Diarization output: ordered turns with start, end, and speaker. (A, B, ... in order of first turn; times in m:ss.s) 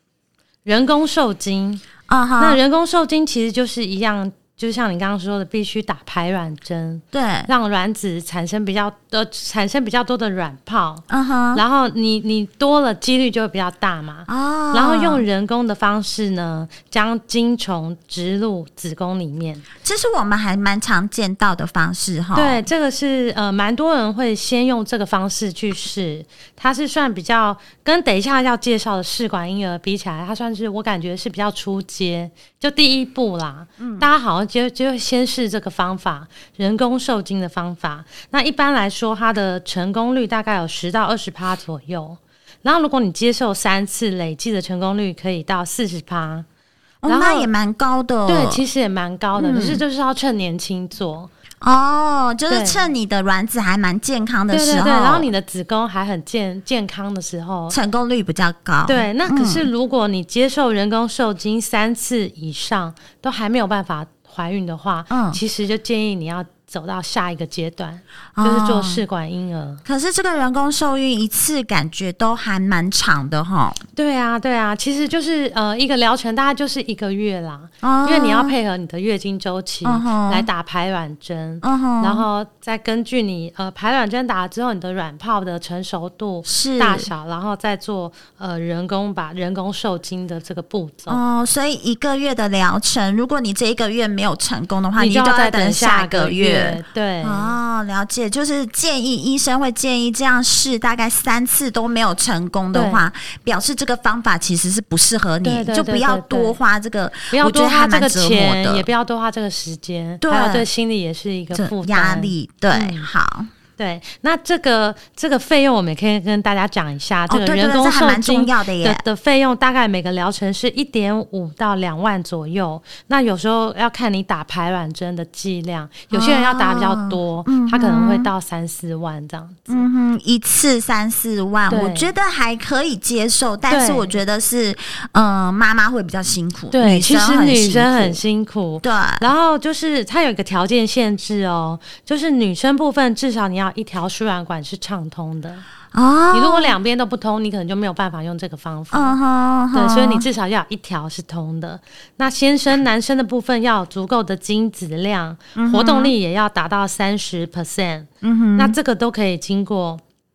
0:00.6-0:01.8 A
0:02.1-0:02.6 B
0:02.4-0:19.6 A
0:07.1-0:07.5 B
0:11.1-0:11.6 B
0:14.3-0:15.2 B
0:19.8-0:22.6 B
0:22.3-0:46.4 A
0:33.8-0:34.1 B
0:47.0-0:48.6 B
0:47.1-0:47.5 A
0:48.2-0:51.3 A
0:49.4-0:49.8 B
0:51.6-0:55.3 B
0:52.5-0:52.8 A
0:54.5-0:57.8 A
0:57.7-0:59.7 B
0:58.9-1:09.8 A
1:05.1-1:05.4 B
1:08.4-1:09.0 B
1:09.9-1:13.8 B
1:14.0-1:31.2 A
1:17.8-1:18.5 B
1:19.8-1:20.5 B
1:21.6-1:22.2 B
1:26.4-1:27.1 B
1:31.1-1:48.9 B
1:35.0-1:37.6 A
1:42.7-1:43.0 A
1:45.4-1:46.6 A
1:47.3-1:53.1 A
1:50.2-1:50.7 B
1:51.5-1:53.5 B
1:53.8-2:09.9 A
1:57.3-1:59.0 B
2:06.1-2:08.3 B
2:09.7-2:18.2 B
2:11.7-2:12.1 A
2:13.7-2:14.2 A
2:16.7-2:25.6 A
2:18.8-2:19.3 B
2:25.9-2:26.8 B
2:26.3-2:29.2 A
2:28.9-2:30.2 B
2:29.7-2:40.0 A
2:35.6-2:36.1 B
2:38.2-2:38.8 B